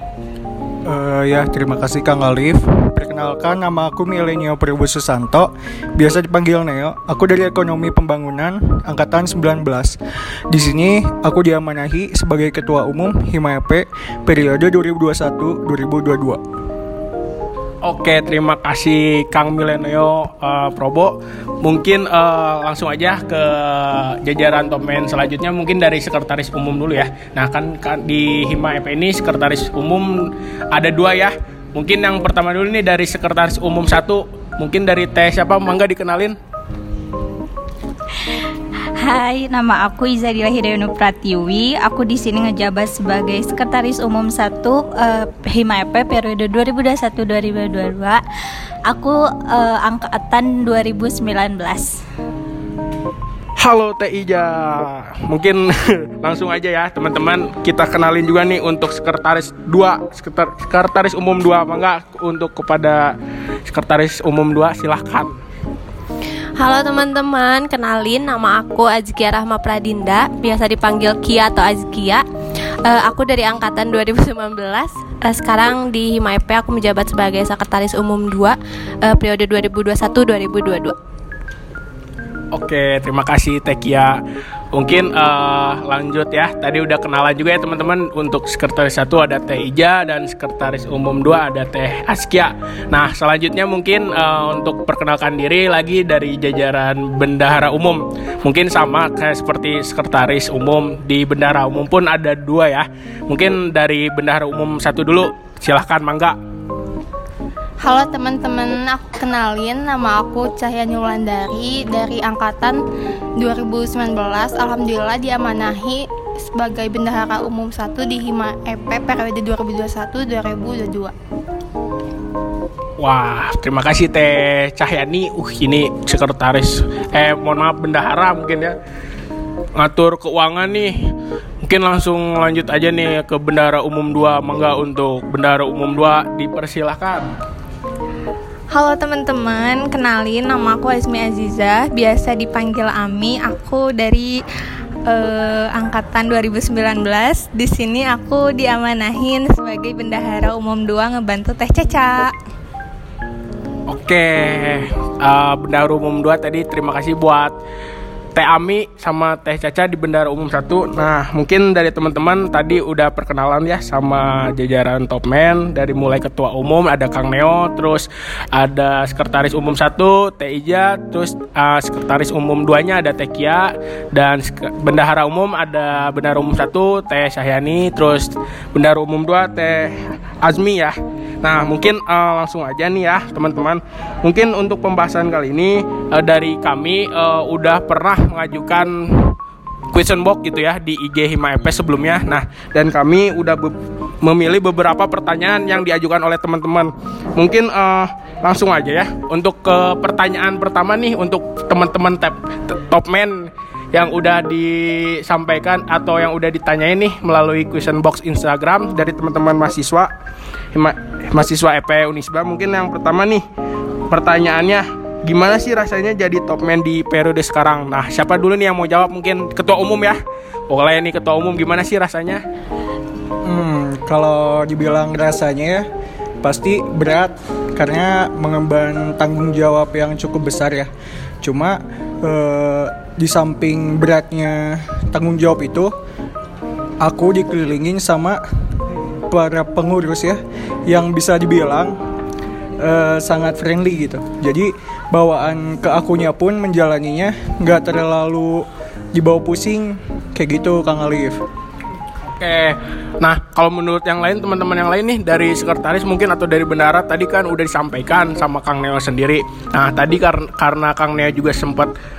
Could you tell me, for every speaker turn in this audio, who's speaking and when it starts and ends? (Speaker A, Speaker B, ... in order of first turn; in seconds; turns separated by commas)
Speaker A: 0.8-10.0, Speaker A: 10.5-16.4, Speaker B: 17.8-36.4, Speaker C: 39.0-48.2, Speaker C: 48.9-52.0, Speaker B: 53.6-63.2, Speaker B: 63.7-65.3, Speaker D: 66.6-72.2, Speaker D: 72.8-81.0, Speaker B: 82.5-84.2, Speaker B: 84.7-106.4, Speaker E: 107.8-112.8, Speaker E: 113.4-121.1, Speaker B: 123.0-128.8, Speaker B: 129.8-131.0, Speaker B: 131.6-137.3, Speaker F: 138.7-144.4, Speaker F: 145.1-152.3, Speaker B: 153.9-157.6, Speaker B: 158.3-189.4, Speaker B: 189.9-210.1, Speaker B: 210.7-213.4, Speaker B: 214.1-222.4, Speaker A: 223.4-225.9, Speaker A: 226.4-230.9, Speaker A: 231.4-235.9, Speaker A: 237.0-238.4, Speaker A: 239.3-241.9, Speaker A: 242.8-251.4, Speaker B: 252.2-261.9